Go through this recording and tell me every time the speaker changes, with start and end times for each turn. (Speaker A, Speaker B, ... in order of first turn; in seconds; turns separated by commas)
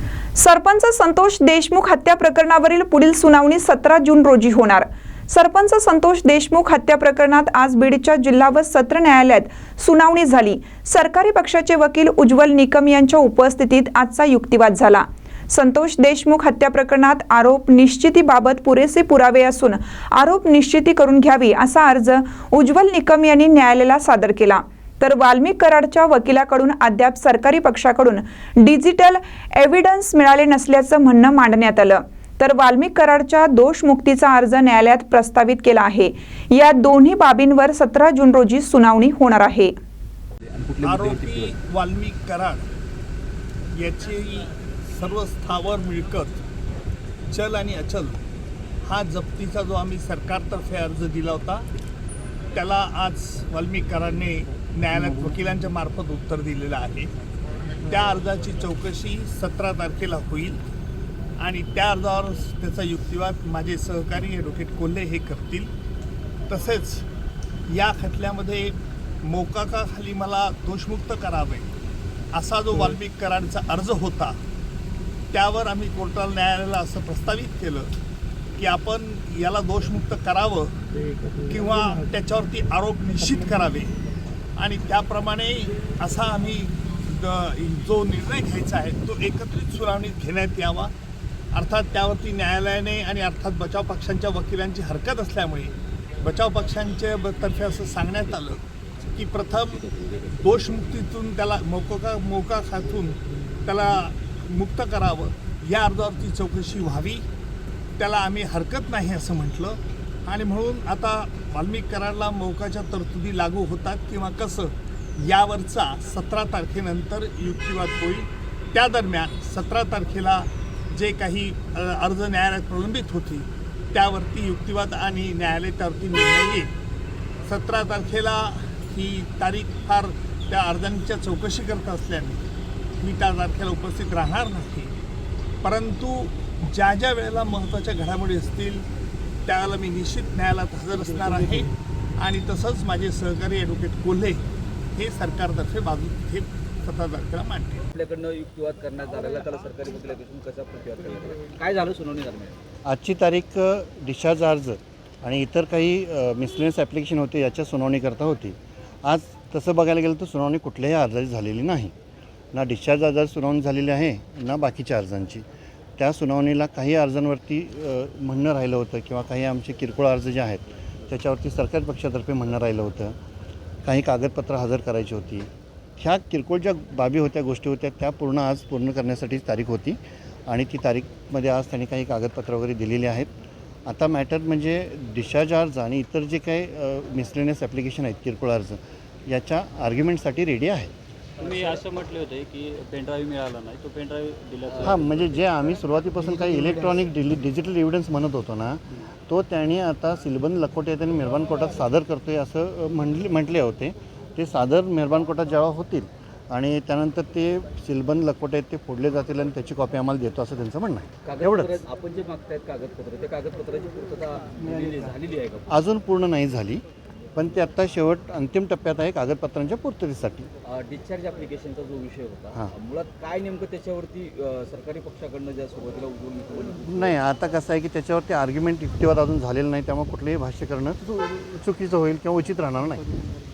Speaker A: 0.4-39.7, Speaker B: 40.6-41.5, Speaker C: 40.8-42.7, Speaker C: 43.7-46.4, Speaker C: 47.3-48.2, Speaker C: 48.8-51.6, Speaker C: 52.5-57.1, Speaker C: 57.8-60.6, Speaker C: 61.4-65.7, Speaker C: 66.5-67.1, Speaker C: 67.7-71.7, Speaker C: 72.3-74.4, Speaker C: 75.3-77.9, Speaker C: 78.6-80.8, Speaker C: 81.5-84.0, Speaker C: 84.6-90.9, Speaker C: 91.5-98.6, Speaker C: 99.1-99.8, Speaker B: 99.9-100.3, Speaker C: 100.4-107.2, Speaker C: 108.0-126.7, Speaker C: 127.5-132.4, Speaker C: 133.0-134.9, Speaker C: 135.6-138.8, Speaker C: 139.4-147.8, Speaker B: 147.9-152.6, Speaker D: 152.8-161.9, Speaker D: 162.5-165.4, Speaker D: 166.0-173.2, Speaker D: 173.8-183.3, Speaker D: 183.9-190.9, Speaker E: 191.4-195.5, Speaker D: 194.8-211.8, Speaker B: 211.2-215.6, Speaker D: 214.6-215.1, Speaker D: 215.7-216.8, Speaker D: 217.3-220.5, Speaker B: 220.6-227.2, Speaker D: 226.7-233.0